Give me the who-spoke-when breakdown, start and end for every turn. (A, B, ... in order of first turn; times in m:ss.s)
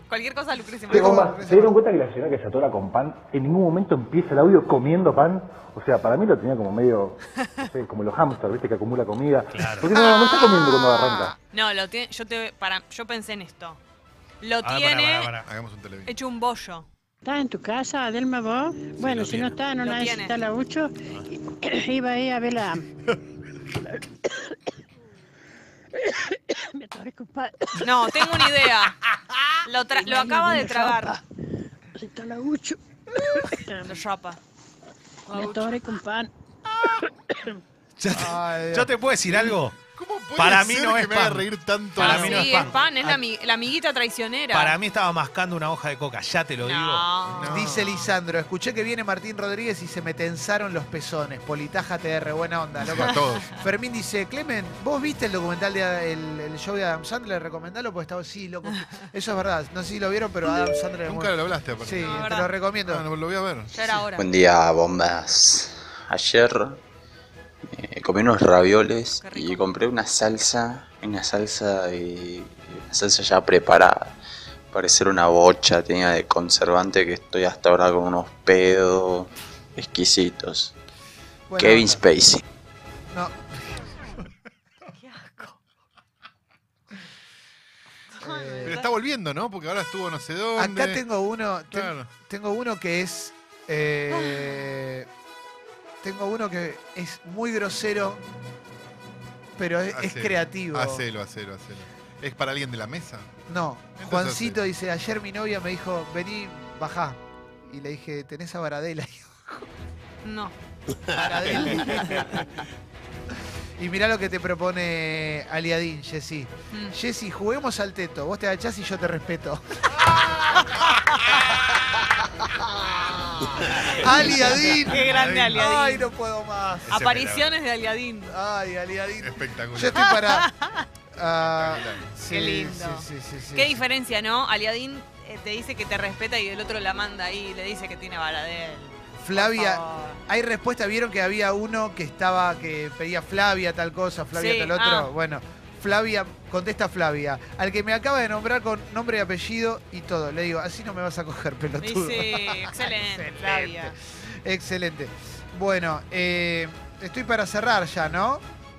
0:00.1-0:01.3 A
0:00.9-0:01.8 B
0:00.9-0:11.4 C
0:09.5-0:09.9 D
0:09.8-0:11.4 B
0:11.5-0:13.8 A
0:14.4-0:15.3 A
0:14.6-0:15.5 D
0:15.4-0:16.1 E
0:16.1-0:16.9 A
0:17.2-0:22.9 F
0:19.0-0:19.6 D
0:19.8-0:20.4 A
0:23.8-0:24.6 F
0:26.0-0:28.7 F
0:27.8-0:29.0 A
0:29.6-0:31.2 A
0:29.9-0:31.2 F
0:32.0-0:34.0 F
0:33.8-0:34.4 A
0:35.3-0:35.7 A
0:35.3-0:36.3 F
0:36.8-0:37.0 E
0:36.8-0:37.6 F
0:38.0-0:39.8 D
0:38.1-0:38.9 B
0:39.3-0:42.7 E
0:40.4-0:42.8 D
0:42.0-0:44.8 A
0:44.5-0:47.1 D
0:46.6-0:47.7 A
0:47.2-0:48.1 E
0:47.5-1:03.0 B
0:52.8-0:53.5 E
1:01.0-1:04.0 E
1:02.0-1:02.5 A
1:03.7-1:04.3 A
1:04.1-1:06.8 G
1:07.7-1:14.2 G
1:09.2-1:09.7 A
1:14.7-1:20.7 G
1:21.5-1:22.0 B
1:21.6-1:22.4 G
1:23.1-1:23.9 B
1:24.9-1:25.6 A
1:28.1-1:28.9 A
1:28.2-1:28.8 B
1:28.6-1:31.0 E
1:30.6-1:35.1 B
1:31.7-1:32.1 E
1:34.1-1:34.6 A
1:36.0-1:38.2 B
1:39.6-1:41.0 B
1:39.9-1:43.3 E
1:43.5-1:49.7 B
1:44.0-1:44.6 E
1:50.2-1:50.5 A
1:51.1-1:52.5 B
1:51.6-1:52.1 A
1:53.8-2:00.8 B
2:02.6-2:07.0 B
2:03.7-2:06.1 A
2:04.9-2:05.6 E
2:06.9-2:07.5 D
2:06.9-2:08.3 A
2:08.3-2:10.5 B
2:09.2-2:10.1 E
2:09.9-2:10.9 A
2:11.1-2:13.8 B
2:11.4-2:12.1 E
2:12.2-2:20.2 A
2:19.2-2:38.4 B
2:24.3-2:25.1 A
2:31.8-2:33.9 A